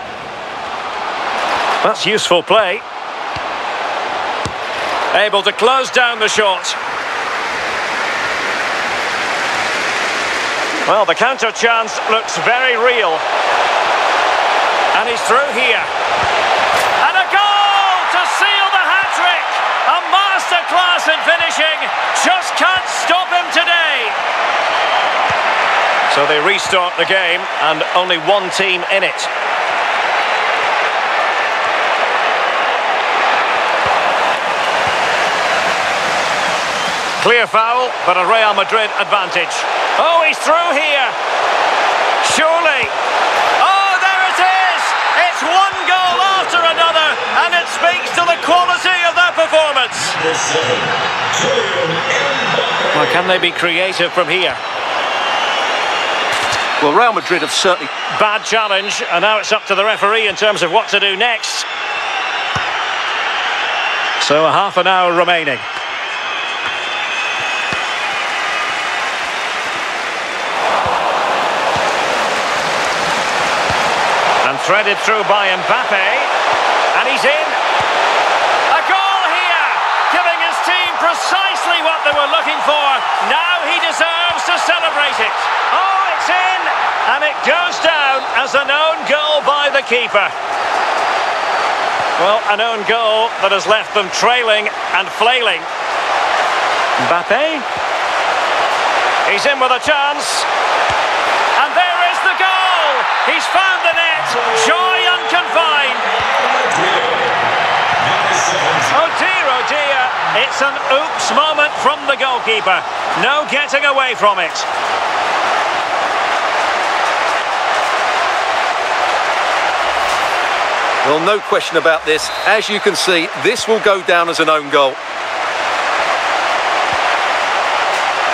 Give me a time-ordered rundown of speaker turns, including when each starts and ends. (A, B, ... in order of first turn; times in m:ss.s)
0:01.8-0:02.8 A
0:05.1-0:06.8 A
0:10.8-0:13.2 A
0:14.9-0:15.9 A
0:17.0-0:24.2 A
0:26.1-0:29.3 A
0:37.2-0:41.1 A
0:42.2-0:42.9 A
0:43.6-0:50.2 A
0:50.1-0:53.0 B
0:52.9-0:54.6 A
0:56.8-0:57.9 C
0:58.1-1:01.7 A
1:04.2-1:05.6 A
1:14.4-1:16.3 A
1:16.9-1:17.6 A
1:18.7-1:30.3 A
1:32.2-1:35.7 A
1:37.0-1:37.6 A
1:39.2-1:40.5 A
1:41.6-1:46.1 A
1:46.5-1:47.4 B
1:48.0-1:48.9 B
1:48.9-1:54.7 A
2:01.0-2:05.0 C